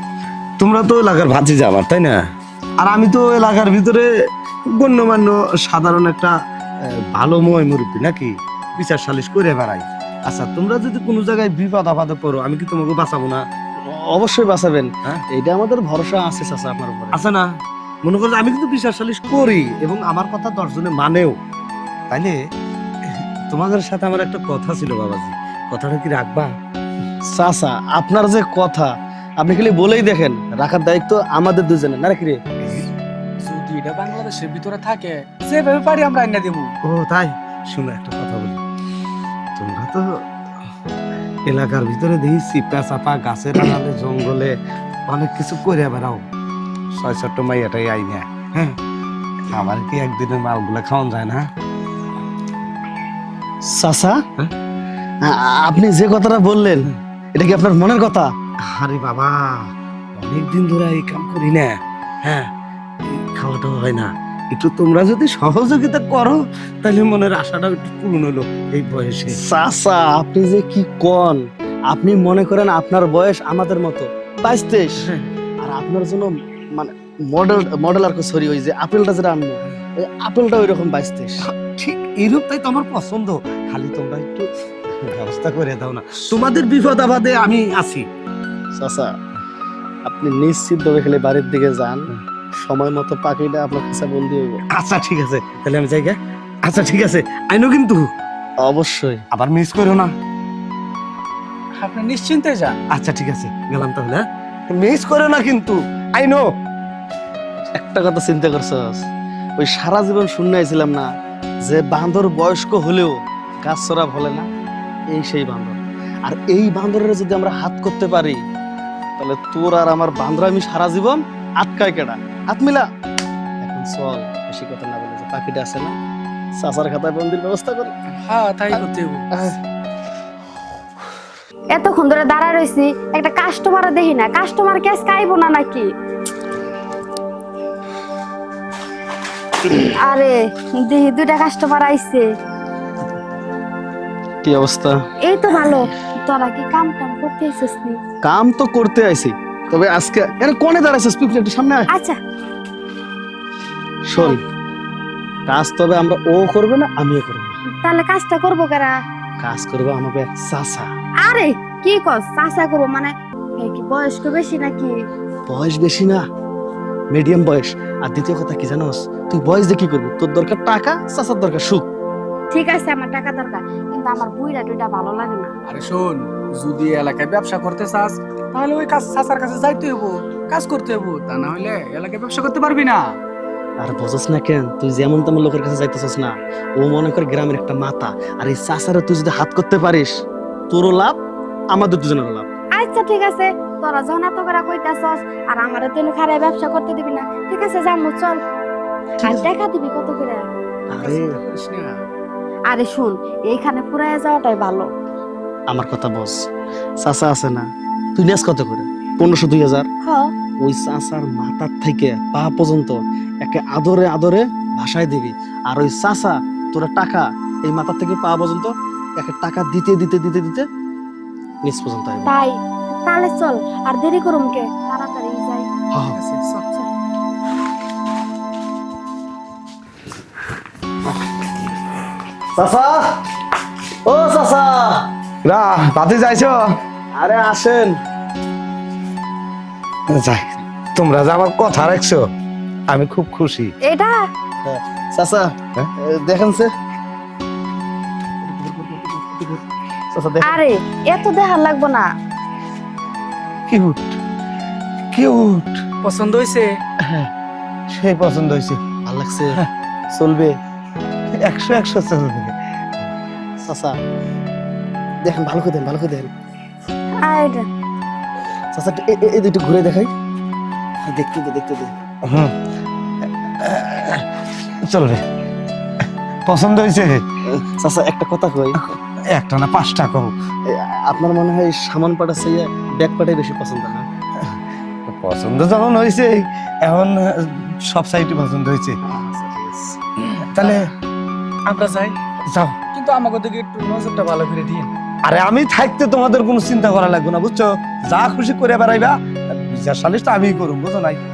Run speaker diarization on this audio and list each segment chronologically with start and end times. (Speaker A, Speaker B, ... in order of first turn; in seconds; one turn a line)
Speaker A: 0.6-2.2
Speaker A: 2.8-4.1
Speaker A: 4.7-6.3
Speaker A: 7.1-13.4
Speaker B: 14.0-17.2
Speaker A: 17.1-17.5
Speaker A: 18.1-21.4
Speaker A: 22.1-22.4
Speaker A: 23.1-26.5
Speaker B: 27.2-28.9
Speaker B: 29.4-32.4
Speaker C: 33.4-36.7
Speaker A: 36.9-38.6
Speaker A: 39.6-40.1
Speaker A: 41.5-44.6
Speaker A: 45.1-46.2
Speaker A: 47.0-48.8
Speaker A: 49.5-51.5
Speaker B: 53.7-54.2
Speaker B: 55.2-58.3
Speaker A: 58.7-62.5
Speaker A: 63.1-69.4
Speaker B: 69.3-75.1
Speaker B: 75.6-81.5
Speaker A: 81.4-84.5
Speaker A: 85.0-88.1
Speaker B: 88.8-89.1
Speaker B: 90.1-94.6
Speaker A: 94.7-98.0
Speaker B: 98.6-99.2
Speaker A: 99.3-100.1
Speaker C: 101.8-102.8
Speaker A: 103.0-106.5
Speaker B: 107.7-109.1
Speaker B: 109.6-111.1
Speaker B: 111.7-114.5
Speaker B: 115.1-118.4
Speaker B: 119.2-122.9
Speaker B: 123.6-126.0
Speaker B: 126.6-127.9
Speaker C: 128.2-129.4
Speaker D: 131.7-135.9
Speaker D: 139.7-142.3
Speaker B: 144.4-145.0
Speaker D: 145.2-148.0
Speaker B: 148.2-151.9
Speaker B: 154.1-154.4
Speaker B: 155.5-157.6
Speaker D: 157.8-158.9
Speaker B: 159.4-160.9
Speaker D: 161.2-164.9
Speaker B: 165.5-166.2
Speaker B: 167.1-171.9
Speaker D: 172.5-175.5
Speaker C: 175.7-183.1
Speaker B: 183.8-190.1
Speaker B: 190.7-191.2
Speaker B: 191.7-192.5
Speaker D: 192.8-198.4
Speaker B: 199.2-199.5
Speaker D: 199.2-200.5
Speaker B: 200.9-201.4
Speaker C: 201.0-201.9
Speaker D: 202.7-204.9
Speaker B: 205.7-206.4
Speaker B: 207.0-209.9
Speaker D: 210.1-210.3
Speaker B: 210.6-220.7
Speaker B: 221.6-222.3
Speaker D: 222.3-225.7
Speaker B: 225.9-226.2
Speaker C: 226.1-226.9
Speaker B: 232.6-233.2
Speaker B: 234.1-235.1
Speaker A: 235.4-236.7
Speaker B: 237.2-237.9
Speaker A: 240.1-242.2
Speaker A: 242.9-243.7
Speaker D: 243.8-244.1
Speaker B: 244.6-246.7
Speaker B: 248.4-250.6
Speaker D: 250.4-252.1
Speaker A: 253.7-254.2
Speaker A: 255.1-255.8
Speaker C: 256.0-256.7
Speaker A: 257.0-257.3
Speaker A: 257.9-258.8
Speaker B: 259.1-259.6
Speaker B: 260.1-260.5
Speaker A: 261.4-262.5
Speaker B: 263.6-263.9
Speaker B: 265.2-266.3
Speaker D: 267.2-267.7
Speaker B: 268.7-270.1
Speaker B: 271.0-271.9
Speaker A: 272.3-272.5
Speaker A: 273.6-274.3
Speaker A: 274.9-275.2
Speaker A: 276.5-277.2
Speaker B: 277.5-278.8
Speaker A: 278.8-280.3
Speaker B: 280.7-284.1
Speaker A: 284.4-289.0
Speaker B: 289.0-290.0
Speaker A: 290.4-290.9
Speaker C: 290.6-290.9
Speaker C: 291.7-292.2
Speaker C: 292.9-294.9
Speaker A: 295.3-299.1
Speaker A: 299.7-301.2